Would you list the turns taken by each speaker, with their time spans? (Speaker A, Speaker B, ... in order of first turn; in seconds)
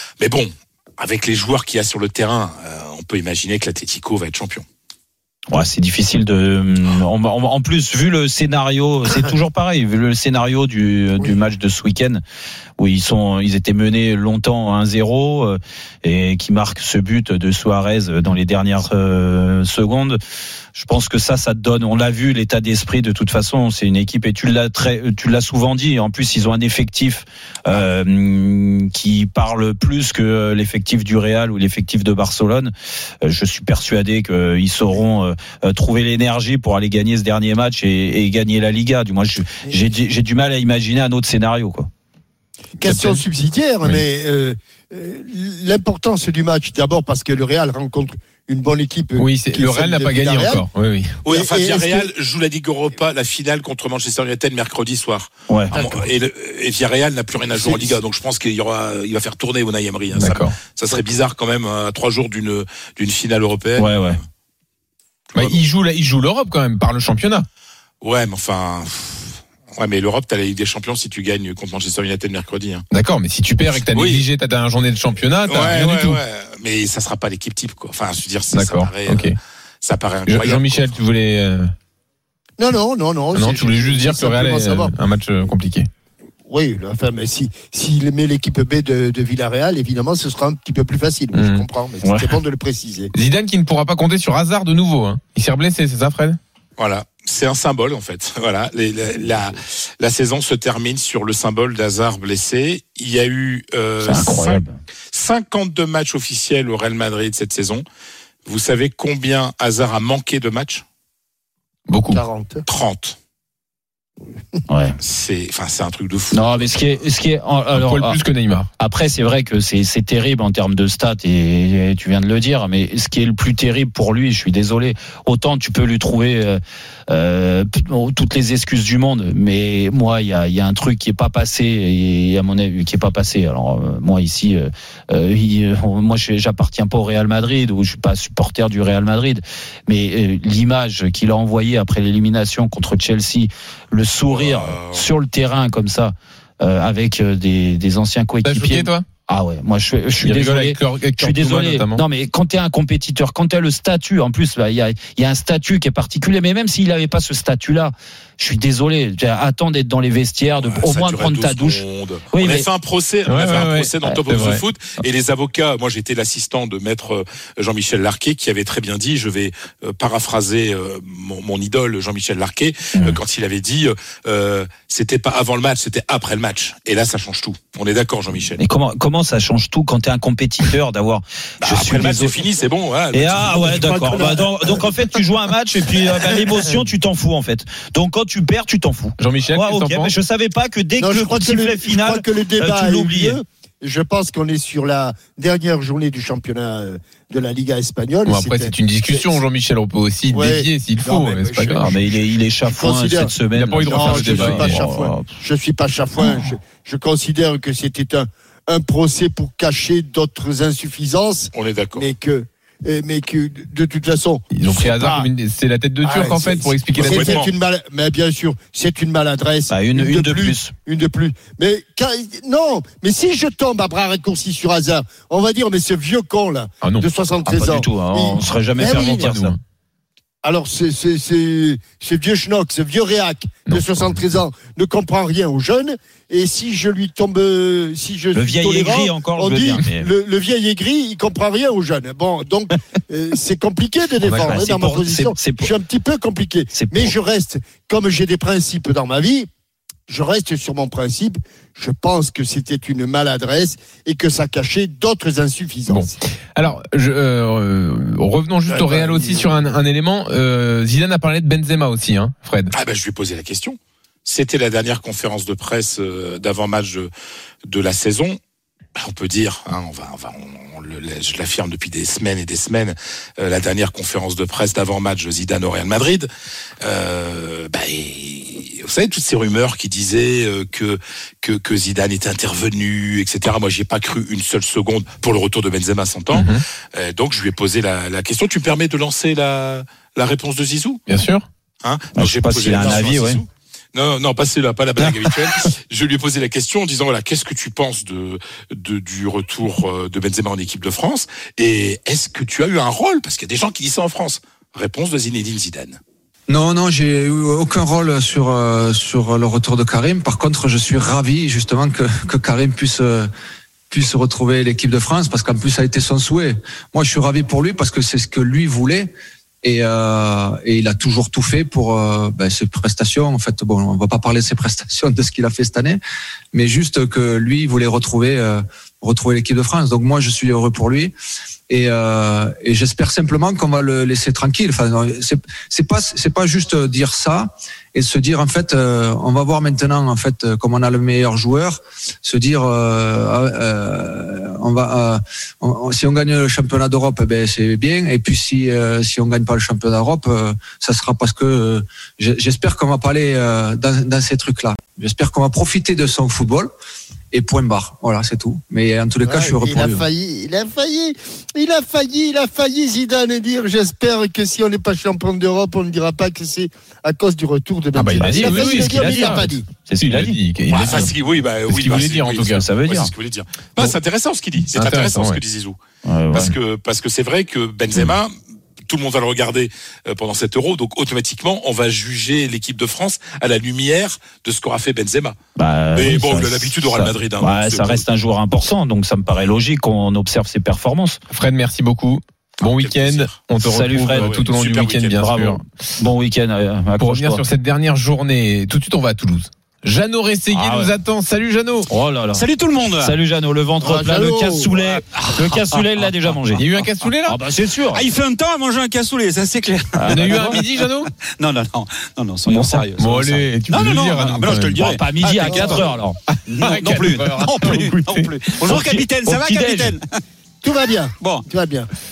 Speaker A: 0.2-4.6, 51.2-64.2, 65.3-65.6, 68.0-72.8, 73.9-74.2, 75.4-81.0, 96.8-107.8, 108.5-110.8, 112.7-113.2, 115.0-117.0, 144.2-145.1, 160.6-178.6, 181.6-184.3, 211.5-212.1, 216.9-217.5, 262.7-267.1, 267.6-268.4, 268.9-276.3, 276.8-291.0, 291.8-306.0, 370.7-375.8, 376.3-378.3, 378.9-385.4, 385.9-388.0, 392.6-393.4, 394.1-395.2
Speaker B: 5.5-12.2, 12.8-20.2, 20.7-32.7, 33.2-41.9, 55.5-55.9, 63.8-64.2, 92.0-92.3, 104.0-104.8, 114.7-115.0, 116.3-118.2, 118.8-162.7, 172.9-173.2, 178.6-182.4, 183.1-193.4, 201.8-205.3, 219.7-220.7, 227.4-229.6, 238.3-240.1, 244.3-245.7, 246.7-247.1, 292.1-293.4, 295.0-295.6, 368.2-371.1, 372.5-373.1, 376.0-376.5, 385.6-391.2, 393.6-394.4, 395.1-397.4, 400.5-400.9, 401.9-402.4, 403.0-406.7, 407.2-408.0, 409.9-410.6, 412.4-413.5, 414.1-417.9, 418.6-420.0
Speaker C: 42.8-50.6, 51.2-52.1, 57.5-58.0, 82.6-84.9, 86.5-93.1, 112.1-112.6, 184.0-184.5, 191.0-199.4, 200.3-215.3, 216.0-229.3, 230.4-249.5, 250.1-256.1, 258.7-259.5, 359.2-369.6, 403.8-404.8, 415.4-415.9, 420.6-421.9
Speaker D: 42.8-43.2, 49.2-51.2, 60.1-60.5, 65.3-67.5, 72.9-76.2, 78.5-79.4, 80.2-81.7, 83.3-85.9, 91.3-91.6, 93.1-96.4, 111.9-112.2, 117.7-118.7, 148.4-149.1, 150.2-152.0, 163.2-164.6, 189.2-190.1, 198.2-202.0, 203.5-204.9, 214.5-217.4, 226.8-227.1, 228.8-229.6, 244.2-244.7, 255.9-262.7, 286.3-286.6, 291.1-291.4, 367.9-371.1, 371.7-372.6, 374.7-375.4, 391.3-395.6, 397.0-401.9, 406.5-407.4, 410.1-411.1, 412.9-414.9, 416.5-418.3
Speaker E: 306.5-313.3, 313.9-326.0, 326.5-331.1, 331.7-356.7, 357.3-360.1
Speaker F: 402.3-403.2, 405.1-405.8, 407.9-410.8, 411.4-412.9, 413.7-415.9, 416.6-420.1